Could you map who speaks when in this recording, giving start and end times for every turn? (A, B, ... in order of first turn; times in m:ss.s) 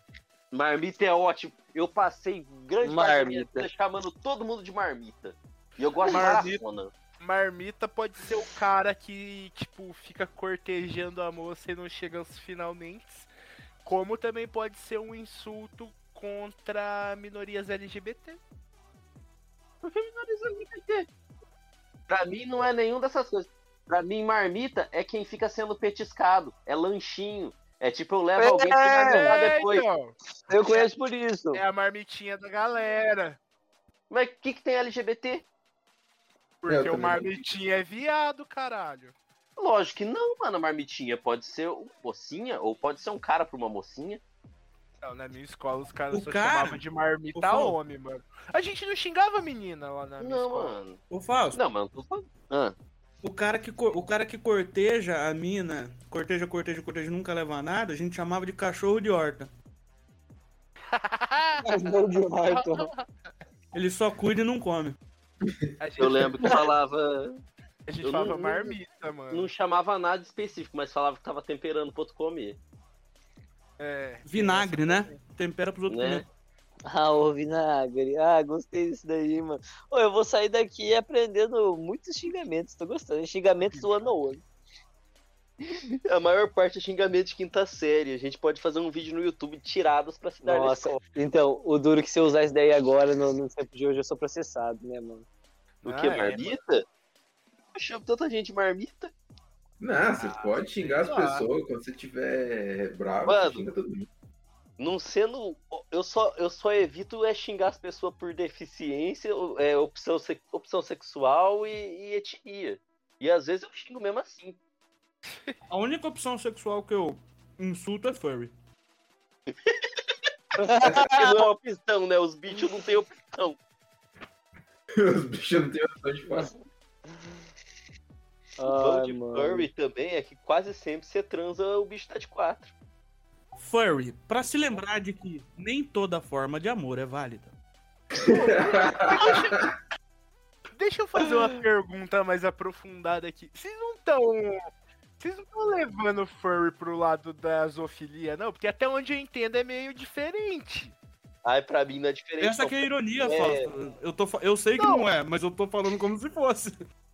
0:00.5-0:06.9 A
0:02.8-0:03.7 B
0:06.1-0:06.6 C
0:07.2-0:13.3 C
0:13.8-0:18.4 C
0:19.8-0:21.0 A
0:22.1-0:29.9 A
0:28.4-0:29.4 B
0:29.0-0:30.1 C
0:30.5-0:31.6 B
0:31.5-0:33.4 C
0:34.1-0:35.4 A
0:36.6-0:39.1 C
0:36.7-0:37.4 D
0:39.6-0:44.2 A
0:45.0-0:50.8 C
0:46.1-0:46.8 E
0:47.3-0:47.8 E
0:50.2-0:51.0 A
0:51.1-0:51.6 E
0:51.5-0:52.8 A
0:53.2-0:59.5 E
1:00.9-1:01.8 C
1:01.6-1:02.9 B
1:02.5-1:03.0 C
1:03.7-1:05.0 E
1:05.4-1:05.7 D
1:05.8-1:06.4 C
1:06.0-1:07.4 A
1:07.9-1:09.5 C
1:08.0-1:08.7 A
1:09.3-1:12.6 A
1:13.8-1:15.2 C
1:14.2-1:16.2 E
1:15.9-1:16.2 A
1:16.9-1:24.4 B
1:23.6-1:24.1 C
1:25.6-1:31.0 A
1:30.4-1:35.2 B
1:35.8-1:36.6 C
1:35.8-1:36.8 A
1:37.7-1:39.1 A
1:39.8-1:44.1 D
1:40.2-1:41.5 C
1:43.2-1:43.7 A
1:44.8-1:54.6 A
1:55.7-1:58.5 E
1:59.5-1:59.9 A
2:00.6-2:01.5 B
2:00.8-2:03.6 A
2:05.0-2:06.5 D
2:08.6-2:09.7 B
2:08.7-2:12.7 A
2:13.6-2:17.5 E
2:18.2-2:19.7 D
2:18.2-2:19.7 C
2:20.8-2:24.6 C
2:25.2-2:31.0 C
2:31.4-2:33.7 A
2:32.4-2:36.8 E